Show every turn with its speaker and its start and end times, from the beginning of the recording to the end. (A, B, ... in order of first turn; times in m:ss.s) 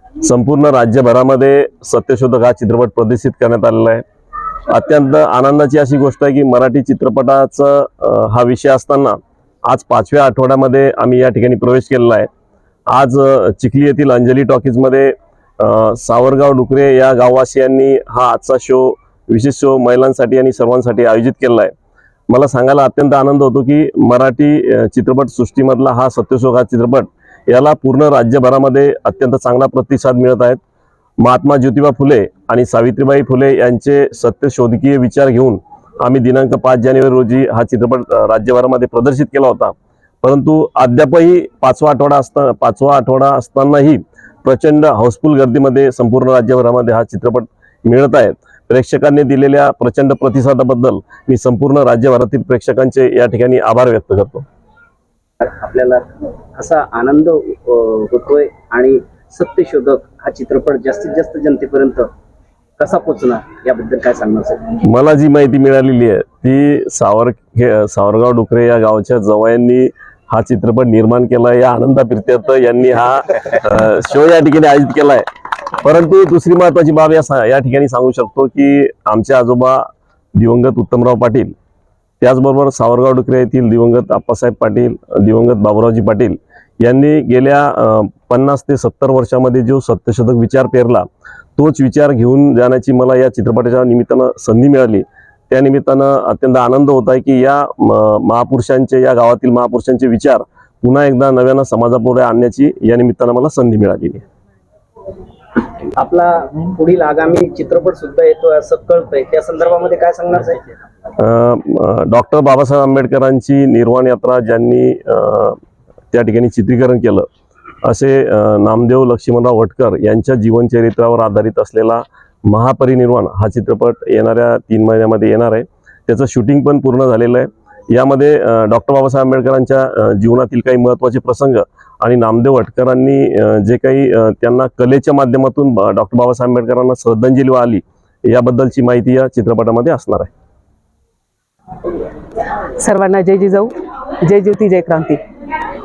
0:00.2-0:04.0 A
0:04.7-0:12.3 A
0:12.9-0:21.7 A
0:22.3-0:30.6 A
0:31.2-0:54.5 A
0:55.4-1:02.1 B
1:02.8-1:04.7 B
1:04.9-1:15.2 A
1:15.8-1:21.5 A
1:22.2-1:44.2 A
1:46.0-1:50.6 B
1:51.2-1:55.6 A
1:56.1-1:57.3 A
1:57.8-2:20.3 A
2:22.8-2:23.7 C
2:24.2-2:25.2 C